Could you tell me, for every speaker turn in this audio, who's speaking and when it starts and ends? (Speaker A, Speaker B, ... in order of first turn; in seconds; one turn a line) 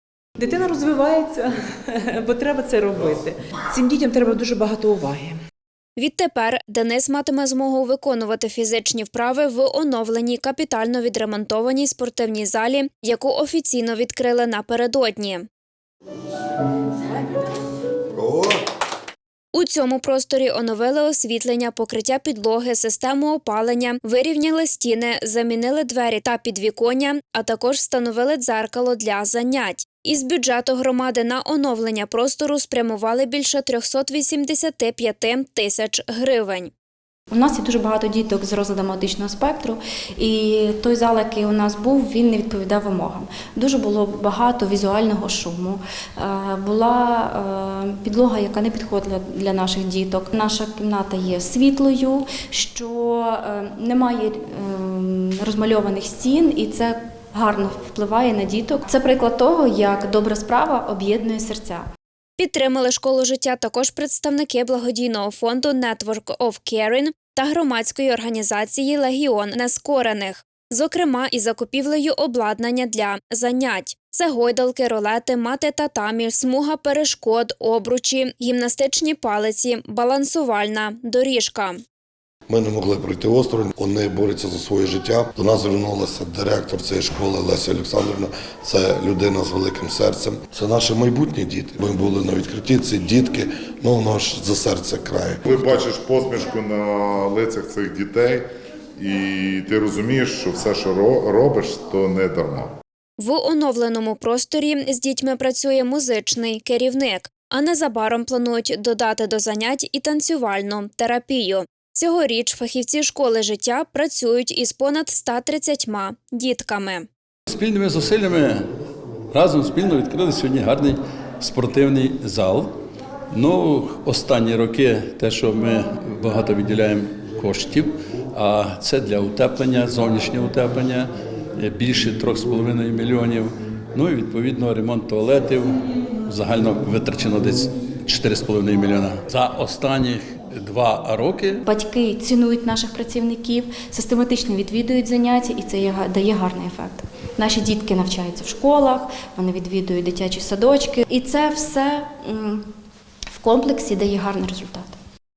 Speaker A: 0.4-5.4
Speaker B: 6.0-15.4
Speaker C: 18.2-18.6
Speaker B: 19.5-36.7
Speaker D: 37.3-61.8
Speaker B: 62.4-81.8
Speaker C: 82.5-95.8
Speaker E: 95.5-98.5
Speaker E: 99.0-102.7
Speaker B: 103.2-117.1
Speaker F: 117.5-118.6
Speaker F: 119.3-122.7
Speaker F: 123.3-135.7
Speaker F: 136.2-141.6
Speaker D: 141.6-152.6
Speaker D: 153.3-154.9